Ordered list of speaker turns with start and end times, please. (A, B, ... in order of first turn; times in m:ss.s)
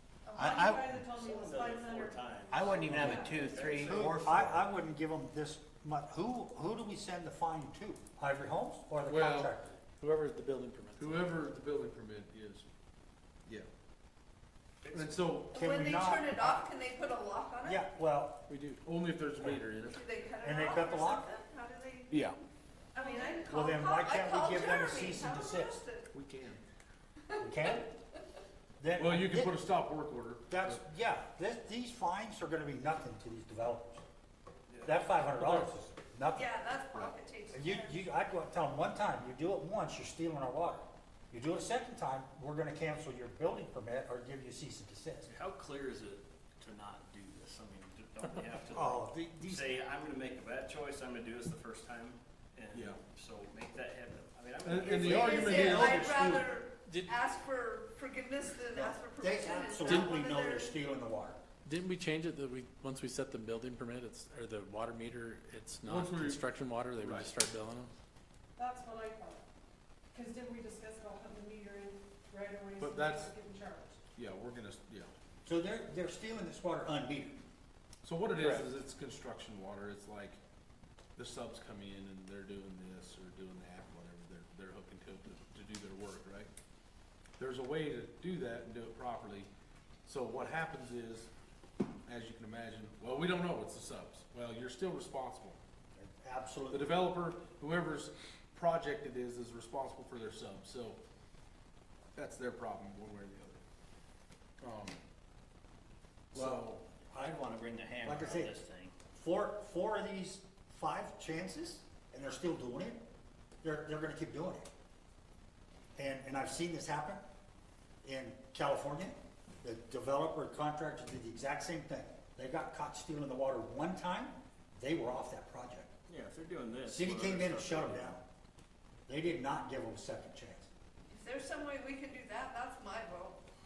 0:00.2-0:00.6 A
0:00.4-0:03.6 B
0:00.4-0:01.0 C
0:01.1-0:04.3 D
0:02.5-0:04.6 C
0:03.7-0:09.8 E
0:09.0-0:09.5 F
0:10.0-0:11.4 G
0:11.0-0:12.7 F
0:14.8-0:15.4 D
0:14.9-0:15.5 F
0:15.4-0:17.8 A
0:15.5-0:16.6 E
0:17.6-0:18.4 E
0:18.5-0:18.8 G
0:18.8-0:20.1 F
0:19.9-0:22.2 A
0:20.4-0:21.3 E
0:22.1-0:22.4 F
0:22.9-0:26.1 A
0:23.0-0:23.5 B
0:23.5-0:25.8 E
0:26.1-0:26.6 F
0:27.3-0:27.8 A
0:27.4-0:27.9 E
0:28.8-0:29.5 E
0:29.0-0:30.8 F
0:30.5-0:34.0 E
0:34.7-0:35.1 D
0:34.8-0:36.5 E
0:35.3-0:35.7 F
0:36.3-0:38.0 A
0:37.5-0:45.3 E
0:45.2-0:55.8 D
0:48.7-0:49.7 E
0:52.7-0:53.0 F
0:54.6-0:56.4 F
0:54.8-1:00.7 A
0:54.9-0:56.5 E
0:56.8-0:57.2 G
0:58.7-1:01.4 E
0:59.8-1:00.1 G
1:01.6-1:07.9 G
1:05.8-1:06.4 F
1:07.0-1:07.3 F
1:08.6-1:09.4 B
1:10.1-1:14.0 B
1:12.8-1:13.3 F
1:14.1-1:15.1 F
1:15.4-1:17.4 E
1:18.0-1:20.4 F
1:18.3-1:18.7 G
1:21.2-1:26.5 F
1:27.4-1:29.5 F
1:30.0-1:31.3 F
1:32.0-1:35.6 F
1:35.9-1:37.0 E
1:36.7-1:41.0 F
1:42.1-1:43.6 F
1:44.6-1:45.0 F
1:46.3-1:46.8 F
1:46.3-1:47.3 E
1:47.1-1:49.0 C
1:48.0-1:48.5 E
1:49.1-1:53.0 E
1:53.6-1:54.7 E
1:55.9-1:57.2 E
1:58.0-2:05.9 E
2:06.1-2:08.2 D
2:06.9-2:08.2 E
2:09.1-2:10.7 E
2:11.1-2:13.4 A